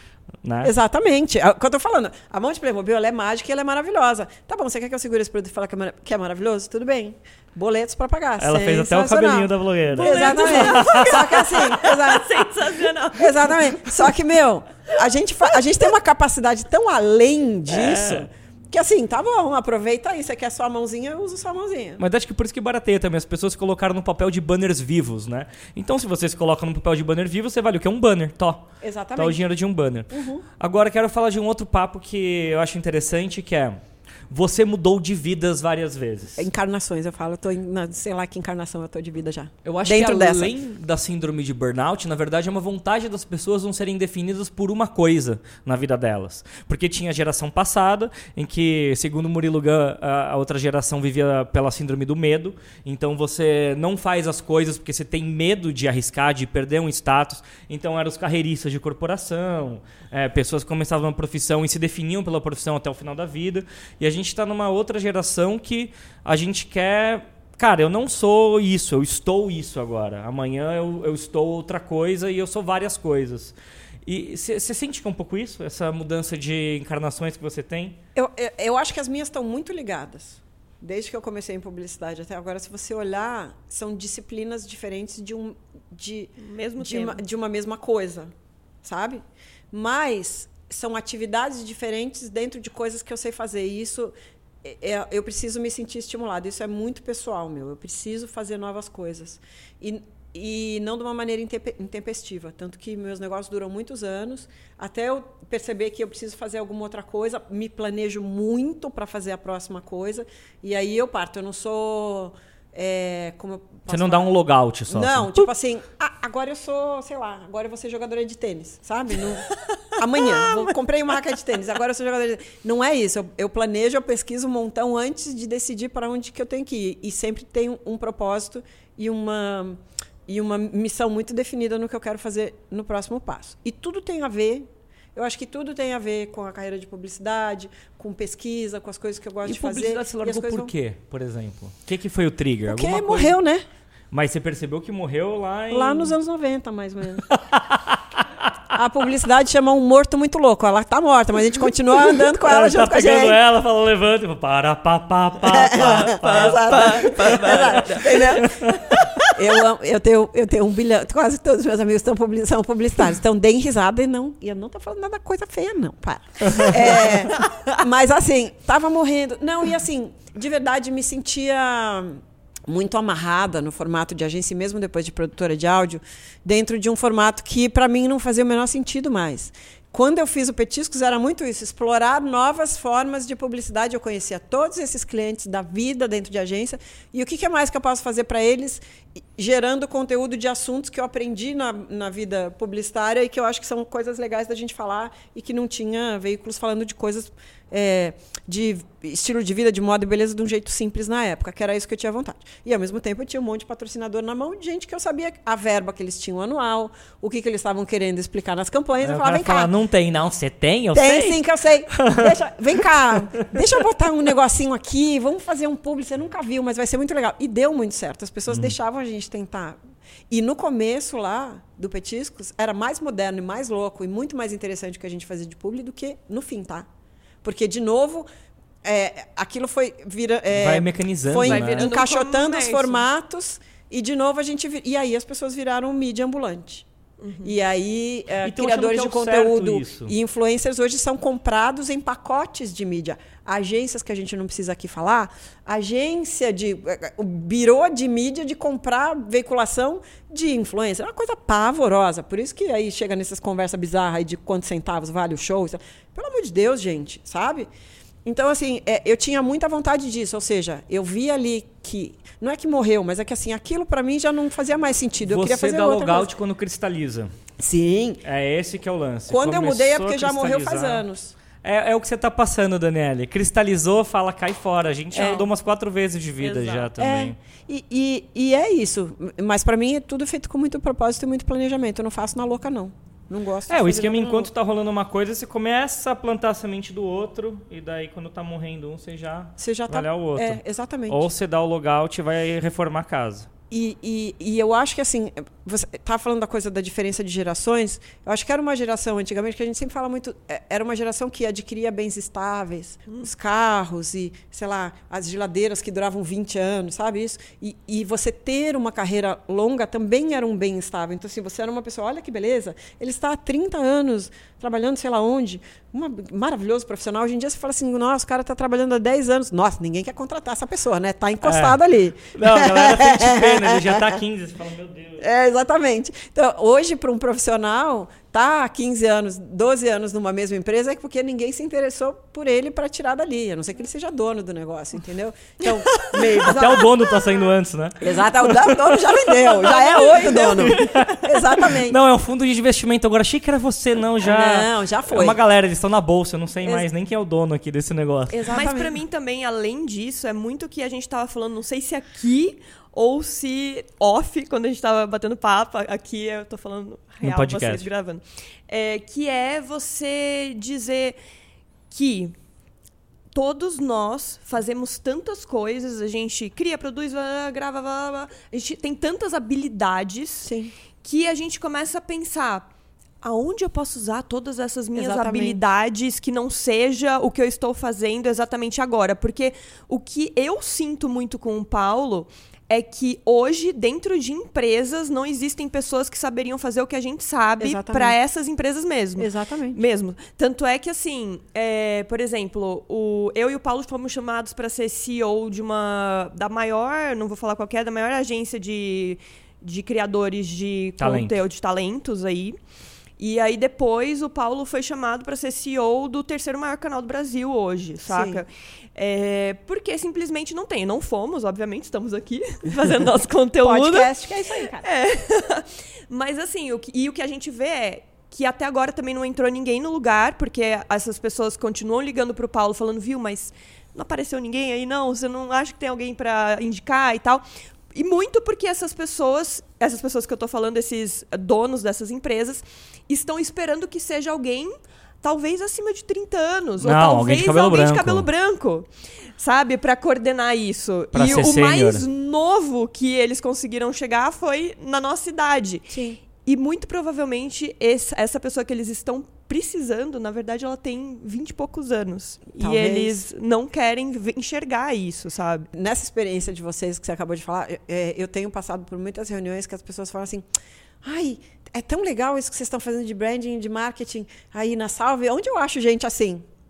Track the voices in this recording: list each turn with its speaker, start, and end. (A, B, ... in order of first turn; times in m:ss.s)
0:00.4-0:00.7 A
0:00.6-0:12.5 B
0:08.4-0:11.4 A
0:10.0-0:13.9 C
0:13.1-0:22.0 B
0:17.7-0:18.3 A
0:22.0-0:36.4 A
0:28.8-0:29.4 B
0:30.1-0:30.4 B
0:36.4-0:40.5 B
0:39.6-1:18.0 A
1:18.1-1:28.3 B
1:26.4-1:27.2 C
1:28.8-1:54.4 B
1:53.9-1:55.4 A
1:54.9-2:20.7 B
2:00.4-2:00.7 C
2:19.4-2:23.4 A
2:22.7-2:23.6 B
2:24.1-2:26.1 A
2:25.7-2:27.2 B
2:27.3-2:28.5 A
2:28.7-2:33.4 B
2:32.2-2:39.1 A
2:35.4-3:29.7 B
2:35.8-2:38.4 C
2:46.4-2:46.8 A
2:47.4-2:47.7 C
3:29.0-3:31.4 A
3:30.9-3:39.8 B
3:31.9-3:32.3 A
3:38.5-3:38.7 A
3:40.3-3:46.9 B
3:47.4-3:48.2 B
3:48.8-3:56.9 B
3:50.5-3:51.9 A
3:51.4-3:53.0 C
3:57.2-3:57.5 C
3:57.4-4:17.7 B
3:58.4-4:00.1 A
4:18.2-4:26.3 B
4:25.2-4:27.3 A
4:27.6-4:28.2 B
4:28.2-4:31.0 A
4:29.3-4:31.3 B
4:31.6-4:37.4 A
4:35.1-4:35.4 B
4:36.4-4:36.9 C
4:37.0-4:44.5 B
4:43.7-4:53.5 A
4:49.6-4:51.2 B
4:53.7-5:24.2 B
5:21.4-5:21.8 A
5:22.3-5:25.2 A
5:25.2-5:36.9 B
5:35.8-5:36.1 C
5:36.2-5:39.1 A
5:38.0-5:42.0 B
5:39.3-5:41.2 C
5:40.6-5:48.6 A
5:44.2-5:45.4 B
5:46.6-5:46.9 B
5:48.3-5:49.0 B
5:48.5-6:01.2 C
5:57.2-5:57.9 A
6:01.9-6:02.3 C
6:03.3-6:12.7 C
6:10.4-6:10.7 B
6:13.2-6:42.6 C
6:14.9-6:15.6 B
6:27.6-6:28.2 B
6:29.2-6:29.8 B
6:41.0-6:41.4 A
6:43.2-6:54.1 C
6:48.1-6:48.4 B
6:53.6-6:54.9 B
6:54.8-7:35.7 C
7:16.8-7:18.3 A
7:21.1-7:22.0 A
7:25.9-7:26.2 B
7:32.6-7:33.2 B
7:35.7-7:40.4 B
7:41.0-7:46.4 B